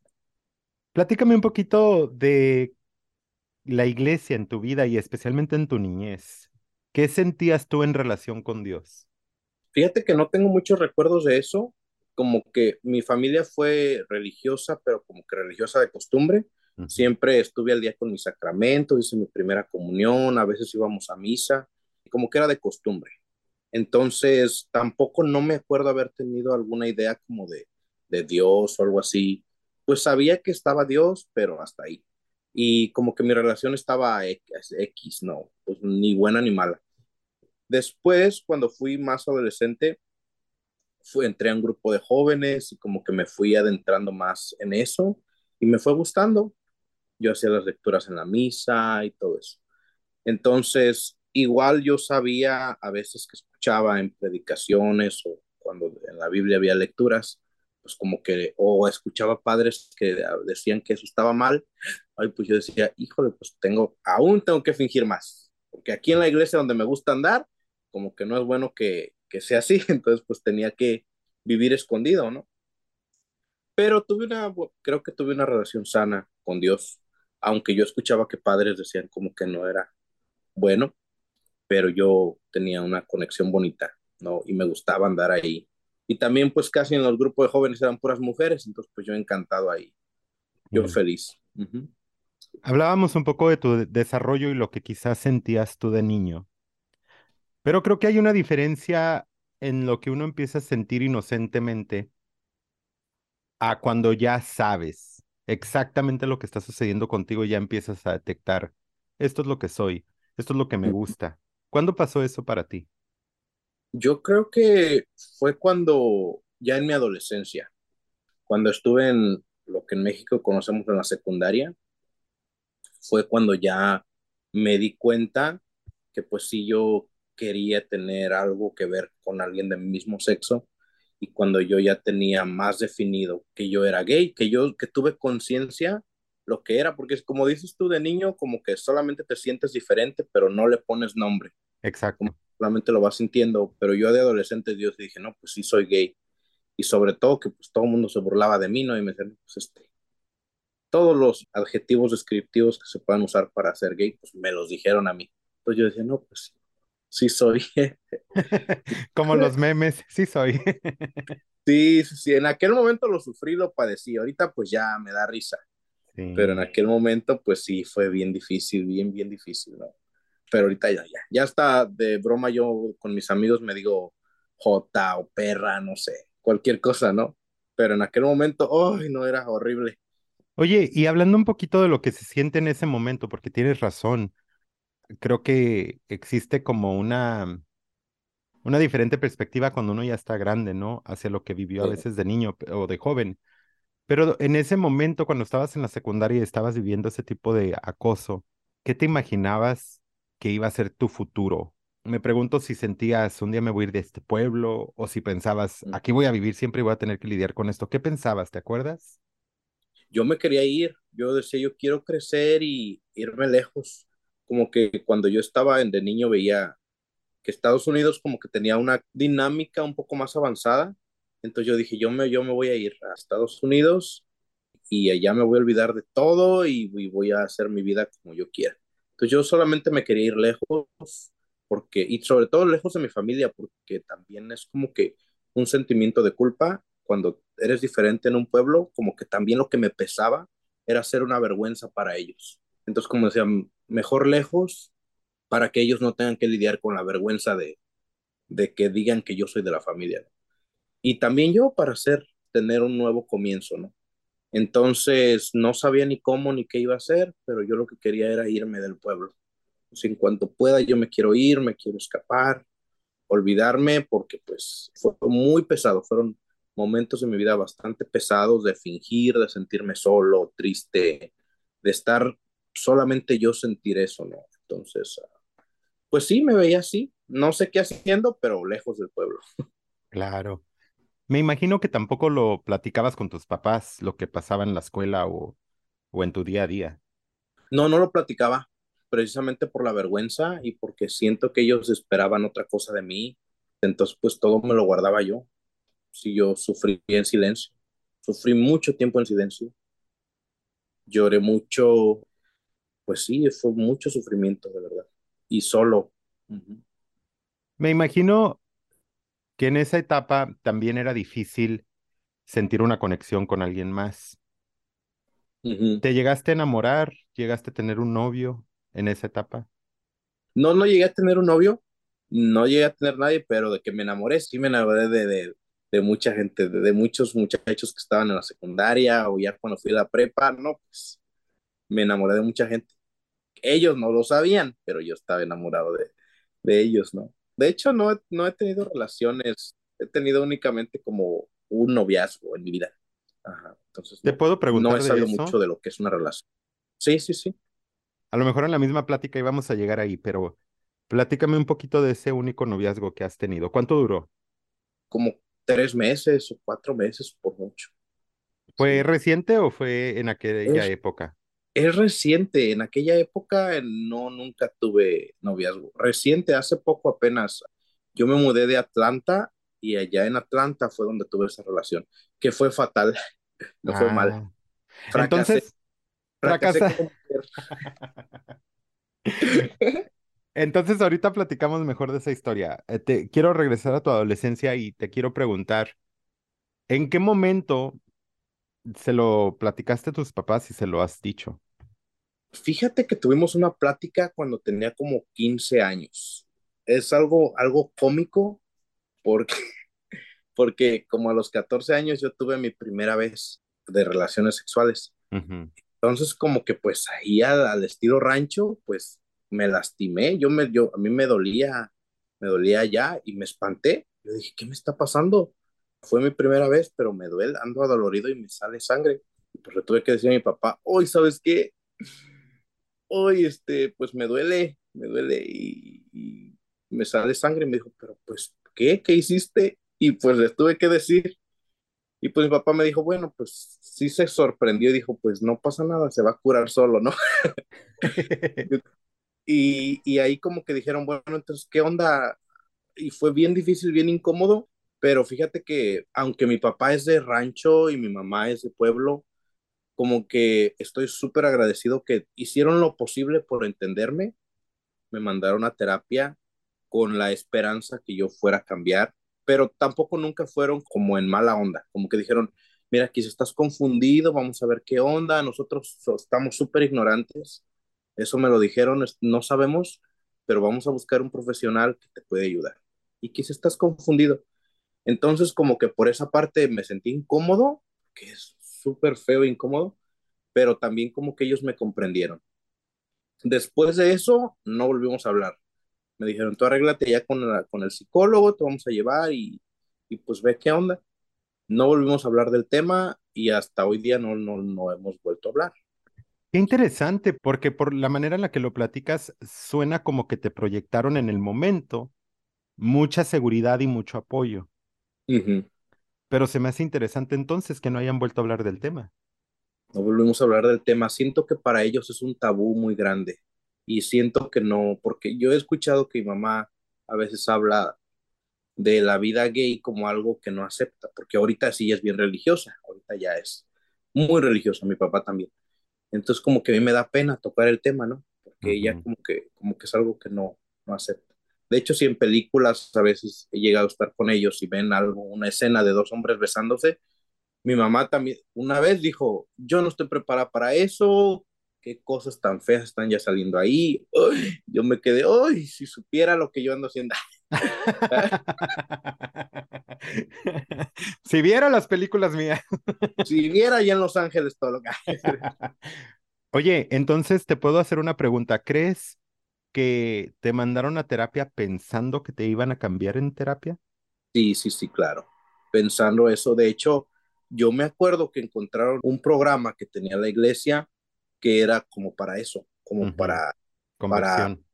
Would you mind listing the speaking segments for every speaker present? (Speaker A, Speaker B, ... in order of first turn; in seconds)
Speaker A: 0.9-2.8, 3.7-9.0, 16.8-17.1, 90.7-91.0, 92.6-96.5, 97.6-102.1, 103.6-112.9, 141.8-142.3, 158.4-161.2, 166.2-166.7, 180.6-184.3, 185.2-187.6, 188.7-193.4, 194.1-209.2, 280.1-280.6, 281.3-285.6, 286.1-287.0, 307.8-308.6, 309.6-311.9, 312.5-314.4, 316.0-319.7, 344.2-345.6, 348.3-350.6, 351.1-354.3, 358.8-361.4, 373.9-374.5, 375.1-375.7, 376.4-377.0, 380.6-385.9, 386.9-388.0, 389.0-391.6, 405.3-405.7, 438.0-438.7, 496.5-502.1, 502.8-504.7, 506.3-509.1, 528.6-529.0, 547.6-553.1, 555.3-555.7, 556.5-559.2, 559.7-563.8, 573.0-573.4, 574.0-574.6
Speaker B: 9.7-23.1, 23.7-32.0, 32.5-36.8, 37.7-40.0, 41.0-46.5, 47.2-49.6, 50.2-72.5, 73.8-79.9, 80.5-80.9, 81.7-89.9, 90.7-91.9, 114.0-117.7, 118.5-121.8, 123.0-125.6, 126.1-130.7, 131.2-141.5, 142.2-146.2, 146.8-149.8, 150.9-156.5, 157.1-158.0, 161.7-165.6, 166.4-169.9, 170.5-180.0, 210.1-216.8, 217.4-224.2, 224.9-244.9, 245.5-247.8, 248.5-250.3, 251.0-253.9, 254.5-259.3, 259.9-262.6, 263.3-271.3, 271.8-275.2, 276.1-279.4, 287.7-295.5, 296.1-297.7, 298.2-299.7, 301.1-302.3, 303.1-306.8, 315.6-316.0, 320.6-331.2, 331.9-332.9, 333.6-342.9, 343.4-346.4, 347.0-347.6, 355.1-357.9, 358.8-359.1, 361.8-367.6, 368.1-373.1, 373.8-374.4, 375.1-375.6, 376.4-377.5, 379.4-379.9, 392.5-398.6, 399.2-399.5, 400.6-405.1, 406.0-421.8, 423.1-431.4, 432.2-437.1, 439.5-442.4, 443.0-449.2, 450.0-454.4, 455.1-456.4, 456.9-467.6, 468.2-474.4, 475.1-480.0, 480.5-482.4, 483.4-485.6, 486.2-491.0, 491.7-495.7, 505.3-505.7, 509.9-518.0, 518.8-525.5, 526.1-537.0, 537.6-547.1, 548.1-548.4, 553.2-555.4, 564.3-570.9, 571.4-573.5, 574.1-574.5